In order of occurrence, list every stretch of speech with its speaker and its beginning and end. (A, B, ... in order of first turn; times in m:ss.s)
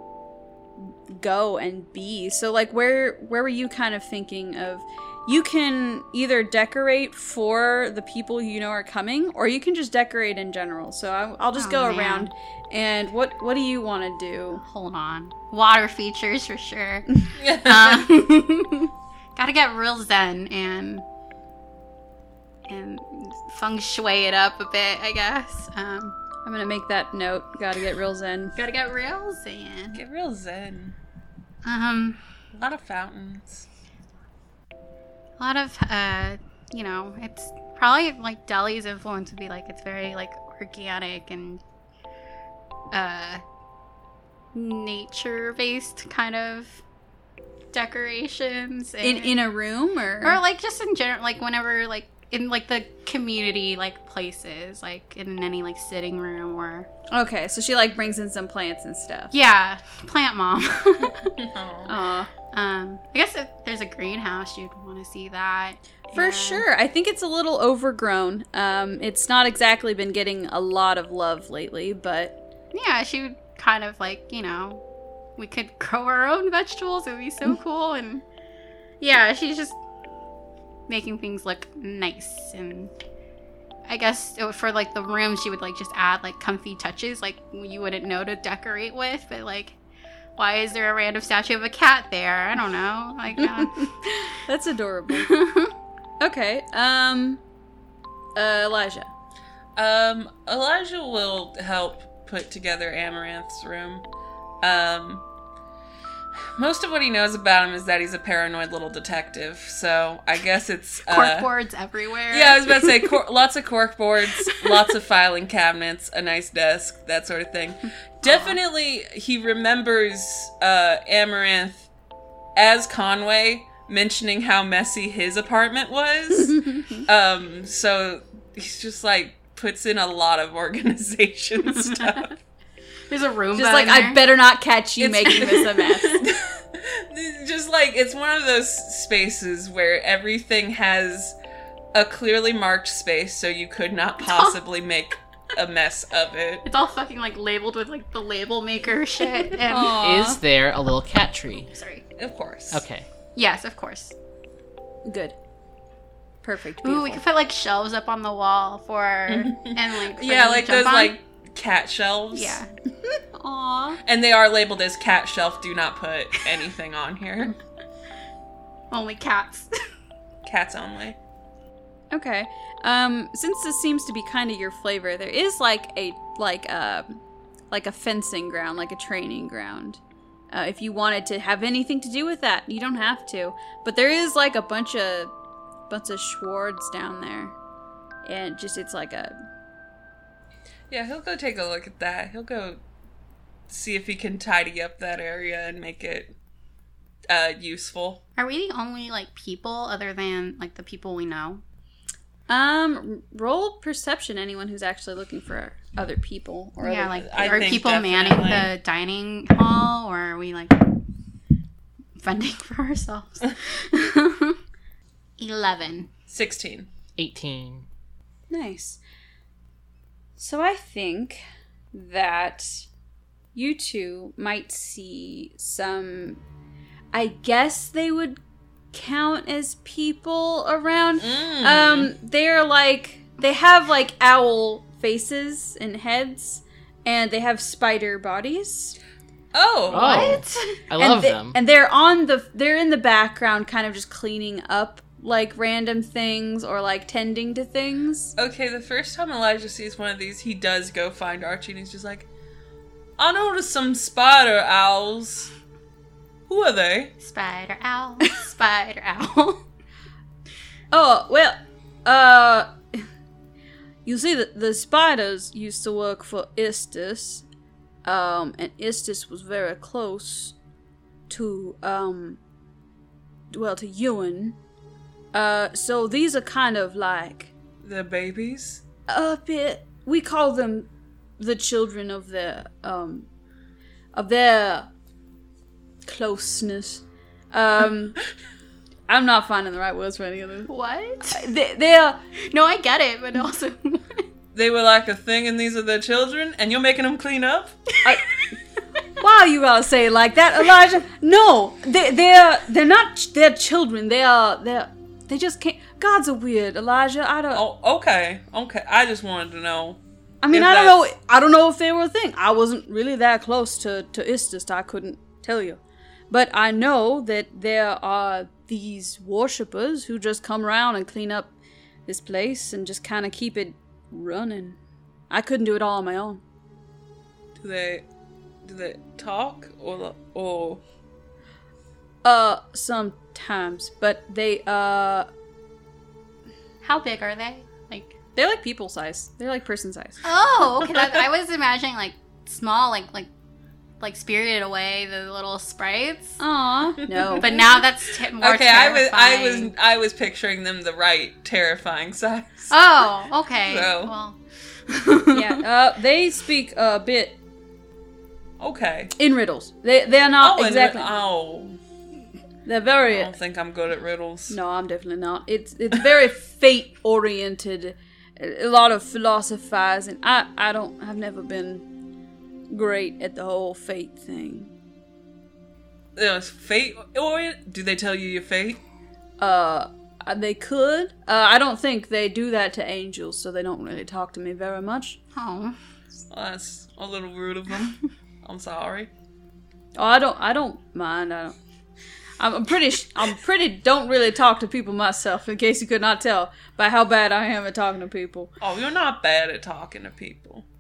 0:00.8-0:14.6 A
0:11.6-0:12.3 B
0:14.6-0:21.0 B
0:17.4-0:18.1 C
0:22.7-0:26.2 B
0:26.4-0:28.6 A
0:28.6-0:30.0 B
0:29.9-0:31.0 C
0:31.6-0:32.2 B
0:32.5-0:33.7 C
0:35.4-0:41.6 B
0:42.9-0:43.4 B
0:44.5-0:46.8 B
0:47.7-0:49.4 B
0:49.0-0:50.4 A
0:50.2-0:56.9 B
0:57.1-0:59.3 A
0:59.3-1:01.4 B
1:01.4-1:01.9 C
1:01.9-1:02.3 A
1:02.5-1:06.6 B
1:06.1-1:12.4 A
1:12.7-1:14.8 B
1:15.4-1:18.2 B
1:19.0-1:19.8 B
1:20.9-1:22.9 B
1:23.9-1:29.8 B
1:30.4-1:33.9 B
1:33.4-1:35.4 A
1:35.2-1:35.7 B
1:36.2-1:37.4 A
1:38.4-1:39.1 A
1:39.8-1:44.0 C
1:44.6-1:45.2 C
1:46.6-1:51.5 C
1:51.1-1:53.0 B
1:52.3-2:01.9 C
1:54.4-1:54.7 B
1:58.2-1:58.6 B
2:02.6-2:12.3 C
2:11.7-2:12.3 B
2:13.1-2:14.2 B
2:13.6-2:16.3 A
2:15.0-2:21.4 C
2:15.3-2:16.1 B
2:21.9-2:26.7 C
2:24.3-2:24.6 B
2:26.6-2:30.0 B
2:29.7-2:30.4 A
2:29.9-2:31.7 D
2:31.7-2:32.0 B
2:32.2-2:32.8 C
2:32.7-2:33.0 D
2:33.4-2:34.1 B
2:35.0-2:35.4 A
2:36.4-2:37.2 A
2:36.8-2:41.2 B
2:39.3-2:42.6 C
2:42.3-2:42.7 B
2:43.1-2:44.0 A
2:44.0-2:47.6 C
2:48.9-2:49.7 B
2:50.4-2:51.2 C
2:52.1-2:57.2 A
2:57.7-3:00.0 A
3:00.5-3:05.3 A
3:05.9-3:07.6 A
3:08.2-3:09.4 A
3:10.9-3:12.8 C
3:13.7-3:16.3 C
3:17.3-3:18.2 C
3:18.4-3:21.6 B
3:22.5-3:27.8 A
3:26.8-3:30.8 B
3:27.2-3:28.7 C
3:32.2-3:34.6 B
3:35.4-3:36.1 B
3:36.3-3:36.9 C
3:37.2-3:37.9 D
3:38.5-3:39.0 A
3:40.4-3:41.4 A
3:41.9-3:42.9 A
3:43.5-3:46.4 A
3:47.1-3:48.4 A
3:48.9-3:59.0 A
3:51.2-3:52.1 C
3:59.5-4:00.4 C
3:59.9-4:01.6 D
4:00.0-4:00.8 B
4:01.0-4:08.4 A
4:08.4-4:12.3 C
4:13.2-4:15.5 C
4:16.5-4:17.1 C
4:17.2-4:19.6 B
4:20.9-4:23.0 A
4:24.0-4:27.4 A
4:28.0-4:30.6 A
4:31.3-4:32.4 A
4:33.5-4:34.6 A
4:35.3-4:37.5 A
4:37.8-4:38.8 C
4:39.1-4:40.9 A
4:41.4-4:43.3 A
4:44.1-4:44.9 A
4:46.0-4:48.2 A
4:49.1-4:50.7 A
4:50.7-4:51.5 B
4:51.3-4:52.2 A
4:52.5-4:54.3 B
4:54.5-4:57.7 C
4:59.2-5:07.6 A
5:07.5-5:10.0 C
5:10.4-5:21.5 A
5:10.5-5:11.0 C
5:22.1-5:24.8 A
5:25.3-5:26.4 A
5:27.6-5:28.0 C
5:28.6-5:30.8 C
5:32.2-5:35.3 A
5:36.8-5:38.1 B
5:38.4-5:40.2 A
5:40.2-5:43.3 B
5:44.0-5:46.4 B
5:46.4-5:47.7 A
5:47.2-5:47.8 C
5:47.4-5:49.7 B
5:48.4-5:53.1 C
5:52.7-5:55.6 B
5:53.6-5:54.1 C
5:55.3-5:57.4 A
5:58.6-5:59.1 C
5:59.2-6:01.1 A
6:00.4-6:01.8 C
6:02.6-6:03.3 A
6:03.1-6:04.6 C
6:04.5-6:11.8 A
6:12.7-6:14.7 A
6:16.2-6:18.8 C
6:19.4-6:25.2 A
6:25.4-6:25.8 B
6:26.3-6:29.1 C
6:30.0-6:31.6 A
6:32.4-6:38.5 A
6:38.6-6:40.7 C